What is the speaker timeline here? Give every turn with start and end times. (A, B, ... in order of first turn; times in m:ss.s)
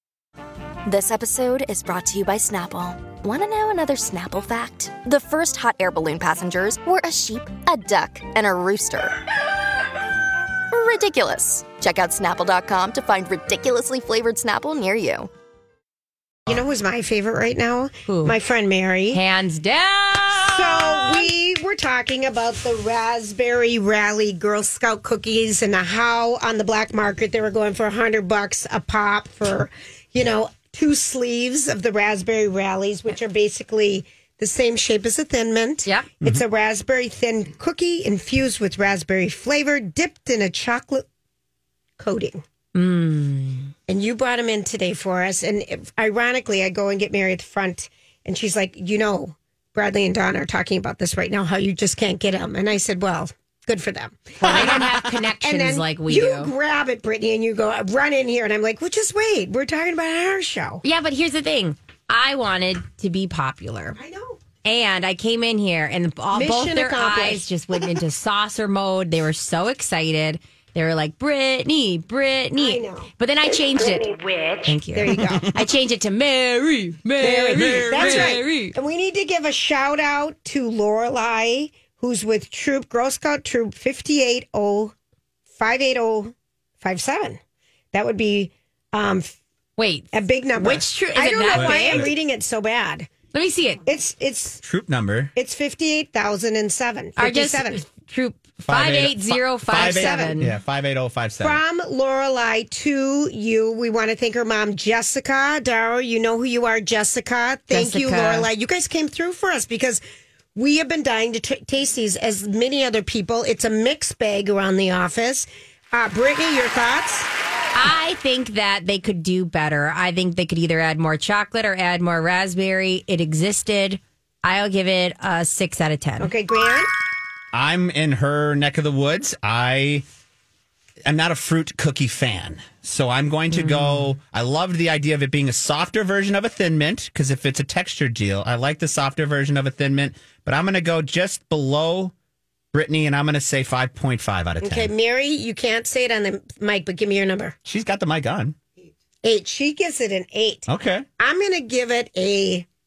0:00.9-0:09.2 A
0:10.7-0:15.3 A
0:16.5-0:19.2 B
0:18.1-0:18.4 C
0:19.1-0:21.3 C
0:20.3-0:41.0 B
0:42.0-0:42.4 B
0:42.8-0:43.7 C
0:43.9-1:00.8 B
0:54.4-0:55.0 D
0:54.4-0:56.5 C
1:00.8-1:04.0 C
1:04.0-1:04.4 B
1:04.6-1:14.1 C
1:06.3-1:07.4 B
1:12.6-1:13.1 B
1:13.9-1:15.6 B
1:14.6-1:18.8 C
1:17.2-1:24.9 B
1:17.5-1:18.4 D
1:25.6-1:27.4 B
1:27.9-1:29.4 B
1:29.8-1:32.1 C
1:30.1-1:33.1 B
1:31.5-1:32.1 D
1:33.3-1:33.8 C
1:33.8-1:34.6 B
1:34.6-1:35.3 D
1:35.3-1:37.8 B
1:37.2-1:40.5 C
1:38.6-1:41.6 D
1:39.8-1:40.4 B
1:41.4-1:50.0 B
1:47.7-1:48.5 C
1:50.6-1:57.3 B
1:57.7-2:06.3 C
2:06.2-2:06.9 B
2:07.5-2:10.0 D
2:11.0-2:22.1 D
2:13.5-2:14.1 C
2:22.7-2:24.9 D
2:24.6-2:27.6 B
2:27.7-2:28.6 D
2:29.2-2:30.7 B
2:30.7-2:31.1 D
2:31.2-2:32.6 B